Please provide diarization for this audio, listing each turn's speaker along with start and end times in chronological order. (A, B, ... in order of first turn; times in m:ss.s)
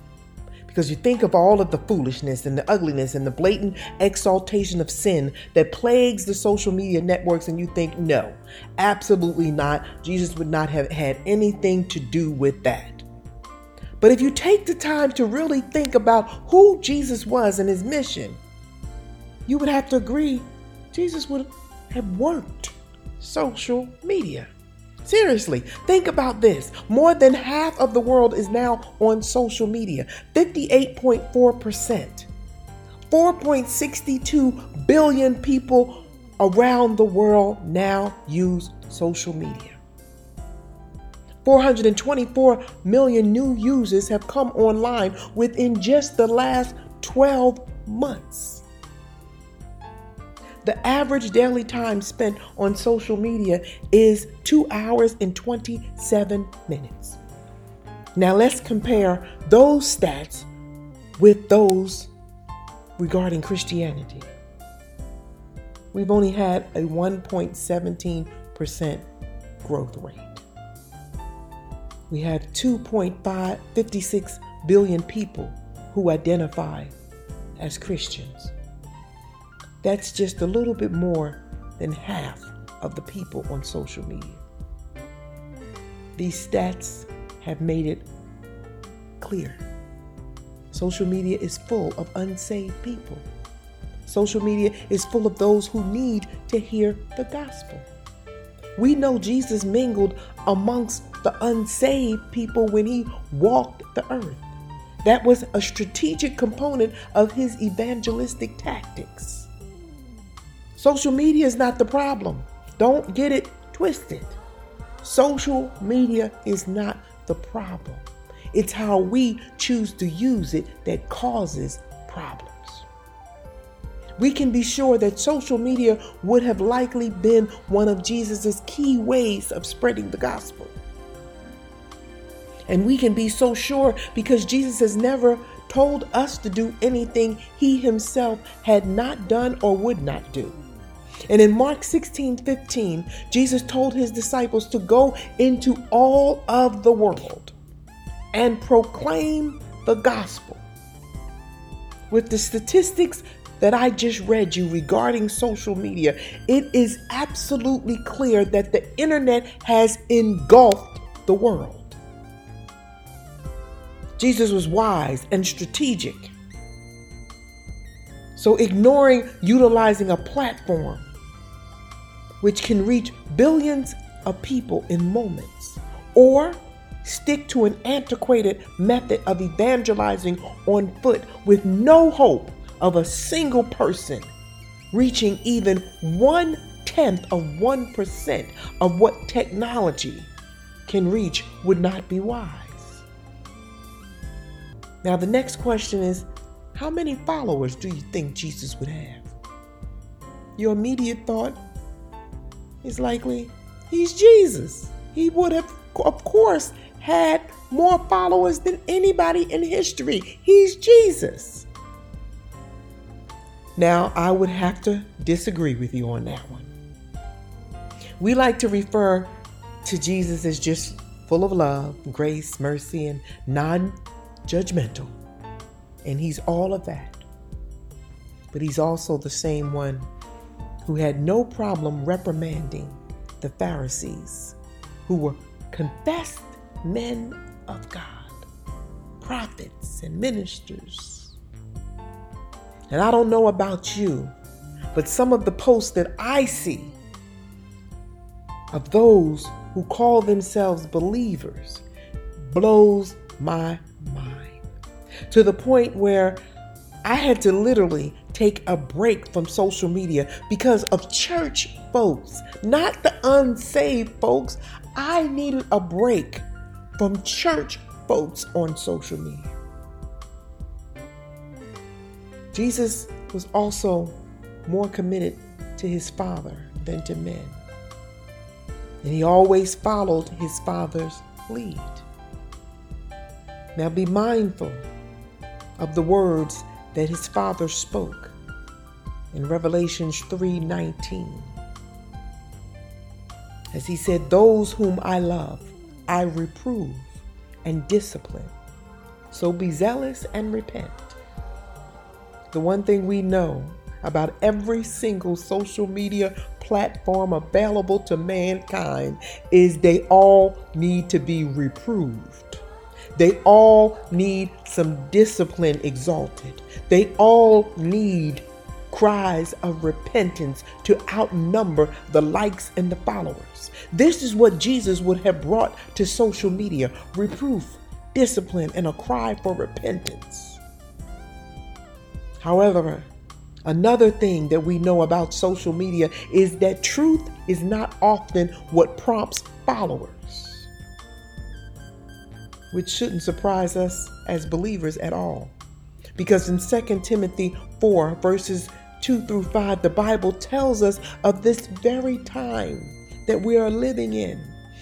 0:00.7-0:13.1 A
0:14.0-0:18.4 A
0:19.5-0:24.5 A
0:25.0-0:32.3 A
0:33.1-0:39.8 A
0:41.4-0:48.6 A
0:50.6-0:57.2 A
0:58.2-1:00.5 A
1:01.2-1:02.1 A
1:03.0-1:04.3 A
1:05.9-1:09.1 A
1:09.6-1:10.4 A
1:12.1-1:17.0 A
1:17.6-1:18.5 A
1:19.8-1:24.4 A
1:26.2-1:28.1 A
1:29.2-1:29.7 A
1:30.7-1:33.3 A
1:34.0-1:37.9 A
1:38.8-1:44.4 A
1:45.0-1:49.5 A
1:50.8-1:54.4 A
1:55.0-2:02.9 A
2:04.2-2:10.8 A
2:12.7-2:20.6 A
2:21.3-2:27.6 A
2:28.3-2:30.6 A
2:32.1-2:42.0 A
2:44.2-2:46.3 A
2:48.3-2:51.1 A
2:52.4-3:04.3 A
3:04.9-3:10.3 A
3:10.9-3:13.1 A
3:15.0-3:19.3 A
3:20.6-3:21.6 A
3:22.8-3:31.7 A
3:33.8-3:36.7 A
3:38.2-3:45.2 A
3:46.0-3:47.2 A
3:48.5-3:50.1 A
3:50.9-3:58.4 A
3:59.2-4:01.4 A
4:02.9-4:04.4 A
4:04.9-4:07.0 A
4:08.7-4:11.8 A
4:12.5-4:14.6 A
4:15.3-4:16.4 A
4:17.0-4:29.6 A
4:32.5-4:37.6 A
4:39.0-4:42.1 A
4:43.8-4:44.9 A
4:45.8-4:48.4 A
4:49.3-4:51.6 A
4:53.7-4:58.6 A
4:59.3-5:01.2 A
5:02.5-5:12.6 A
5:13.2-5:30.6 A
5:32.4-5:33.1 A
5:33.6-5:40.7 A
5:42.7-5:45.6 A
5:46.2-5:54.6 A